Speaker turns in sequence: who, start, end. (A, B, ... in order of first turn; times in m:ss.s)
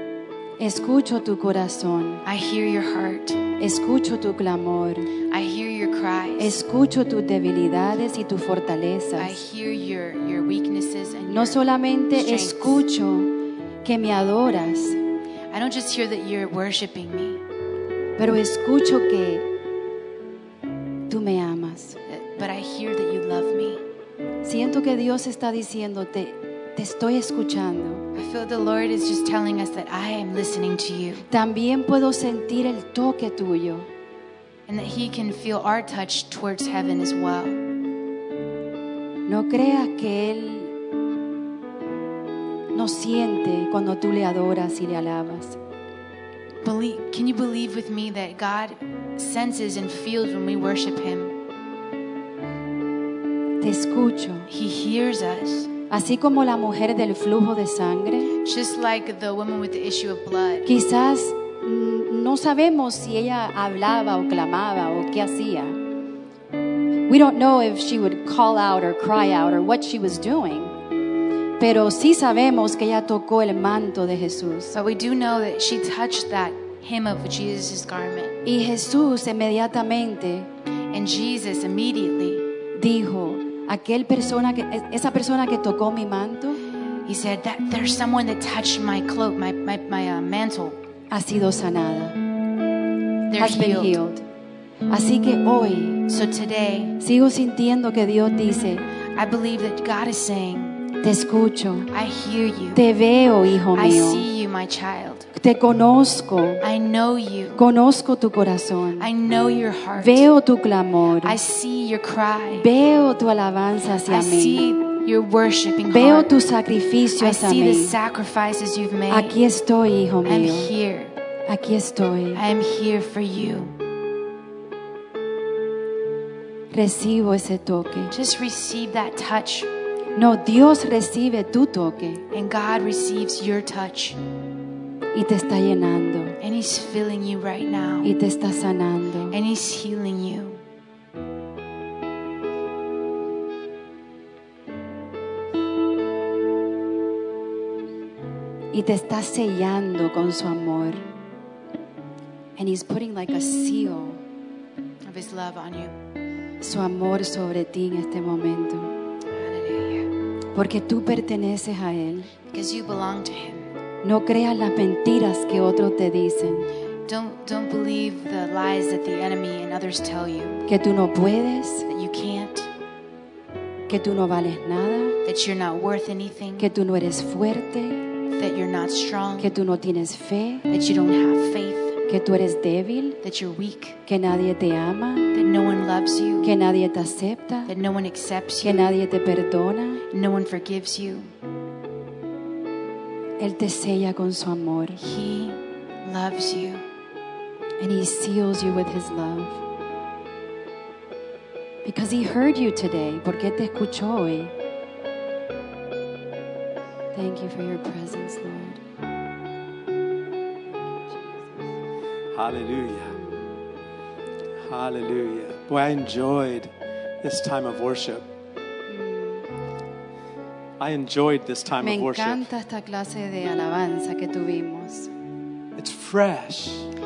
0:00.6-0:02.2 A
0:02.2-0:03.4 B
0:03.6-0:05.1 A
0:05.3-0:06.5 B
0:06.4-0:09.4 A
0:09.2-0:11.6 B
0:11.3-0:13.3 A
0:12.1-0:12.8 B
0:13.8-0:15.0 A
0:15.5-0:17.4 B
0:18.2-0:19.5 A
0:21.1-0:22.0 A
0:22.1-0:23.8 B
0:24.4-0:28.0 A
0:28.1-0:31.2 B
0:31.3-0:33.9 A
0:34.7-0:37.6 B
0:39.3-0:40.7 A
0:42.7-0:45.6 A
0:46.6-0:51.3 B
0:53.6-0:54.5 A
0:54.5-0:55.7 B
0:55.9-0:58.3 A
0:58.4-1:00.7 B
1:00.6-1:05.8 A
1:07.1-1:10.8 A
1:11.6-1:14.7 A
1:14.7-1:18.4 B
1:18.4-1:20.5 A
1:20.9-1:22.4 B
1:22.8-1:26.6 A
1:27.0-1:30.8 B
1:31.1-1:32.2 A
1:33.3-1:34.0 B
1:33.4-1:34.2 A
1:34.9-1:36.0 A
1:36.1-1:37.0 B
1:37.0-1:38.9 A
1:39.1-1:40.8 B
1:41.0-1:41.9 A
1:41.9-1:42.8 B
1:42.7-1:44.2 A
1:43.7-1:45.3 B
1:45.3-1:46.6 A
1:46.6-1:47.6 B
1:47.5-1:49.1 A
1:49.0-1:50.3 B
1:50.0-1:51.4 A
1:51.2-1:52.7 B
1:52.6-1:54.6 A
1:54.0-1:56.3 B
1:55.9-1:58.0 A
1:57.2-1:59.4 B
1:59.1-2:00.7 A
2:00.2-2:01.1 B
2:01.5-2:02.4 A
2:02.3-2:03.7 B
2:06.7-2:08.1 A
2:08.1-2:09.7 B
2:10.2-2:12.2 A
2:12.3-2:14.2 B
2:15.1-2:16.4 A
2:16.4-2:18.1 B
2:18.0-2:19.4 A
2:19.3-2:20.6 B
2:28.7-2:31.0 A
2:32.6-2:34.2 A
2:35.0-2:35.9 B
2:36.6-2:38.9 A
2:39.3-2:40.1 B
2:40.5-2:42.3 A
2:42.5-2:43.7 B
2:44.0-2:46.7 A
2:47.1-2:50.6 B
2:50.7-2:51.8 A
2:51.9-2:52.7 B
2:53.9-2:55.2 A
2:55.2-2:56.7 B
2:56.6-2:58.0 A
2:58.3-2:59.5 B
2:59.4-3:00.6 A
3:00.7-3:02.0 B
3:02.1-3:03.2 A
3:03.2-3:04.0 B
3:04.1-3:05.3 A
3:05.3-3:06.5 B
3:06.4-3:07.7 A
3:07.7-3:08.9 B
3:08.6-3:10.0 A
3:10.1-3:11.3 B
3:13.4-3:15.0 A
3:15.0-3:16.8 B
3:17.8-3:19.6 A
3:21.8-3:24.5 A
3:27.1-3:28.8 A
3:31.1-3:31.6 A
3:32.3-3:33.2 C
3:33.1-3:33.6 A
3:34.6-3:38.3 C
3:38.9-3:39.5 A
3:40.8-3:42.5 C
3:41.8-3:45.1 A
3:45.8-3:46.9 C